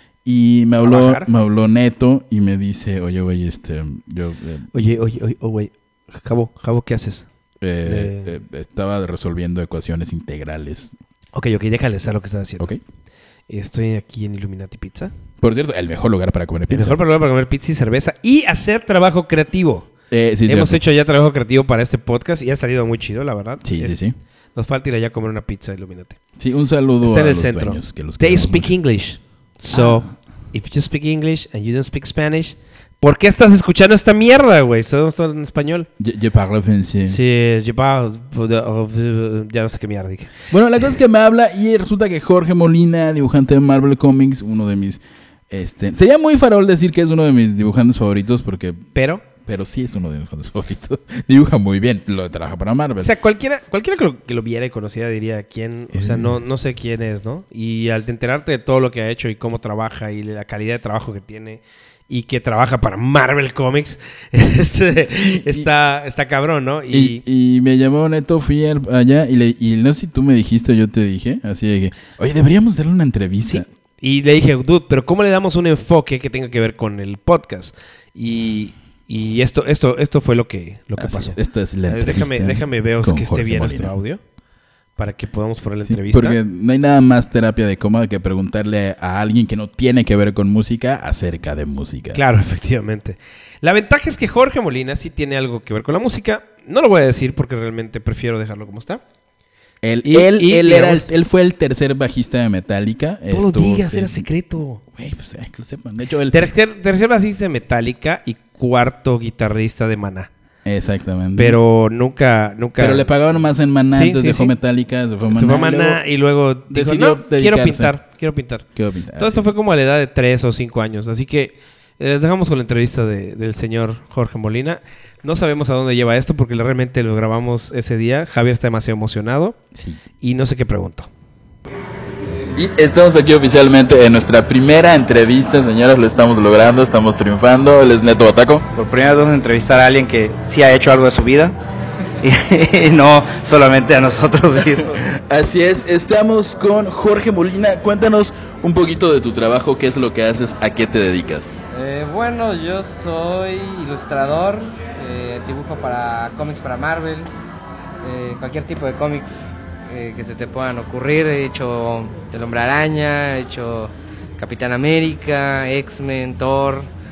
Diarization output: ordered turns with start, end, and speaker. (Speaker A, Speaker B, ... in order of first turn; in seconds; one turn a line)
Speaker A: 0.2-4.7
Speaker B: 0.8-1.3
Speaker B: 4.7-7.3
Speaker A: 7.6-10.9
Speaker B: 7.8-8.3
Speaker B: 11.3-12.7
Speaker B: 13.5-15.1
Speaker A: 15.4-17.0
Speaker B: 16.7-19.9
Speaker A: 20.1-20.8
Speaker B: 20.5-24.0
Speaker A: 23.6-24.2
Speaker B: 24.6-26.2
Speaker A: 26.4-28.8
Speaker B: 27.0-35.9
Speaker A: 29.7-30.1
Speaker A: 36.0-37.2
Speaker B: 37.1-40.3
Speaker A: 40.5-53.1
Speaker B: 49.0-49.2
Speaker B: 53.0-67.2
Speaker A: 55.9-56.4
Speaker A: 65.0-65.7
Speaker A: 66.9-73.7
Speaker B: 73.4-81.4
Speaker A: 81.0-83.9
Speaker B: 81.9-84.2
Speaker B: 85.0-86.4
Speaker A: 85.8-92.2
Speaker B: 92.1-99.0
Speaker A: 99.8-104.3
Speaker B: 100.0-101.1
Speaker B: 103.3-104.8
Speaker A: 105.0-106.5
Speaker B: 106.3-110.3
Speaker A: 110.7-111.6
Speaker B: 111.4-113.1
Speaker A: 112.8-116.0
Speaker B: 113.9-114.5
Speaker B: 115.3-129.6
Speaker A: 116.7-118.0
Speaker A: 118.8-119.5
Speaker B: 130.2-131.1
Speaker A: 132.5-138.7
Speaker C: 138.7-141.6
Speaker C: 142.2-145.0
Speaker A: 145.1-151.5
Speaker D: 151.7-157.3
Speaker D: 158.0-166.9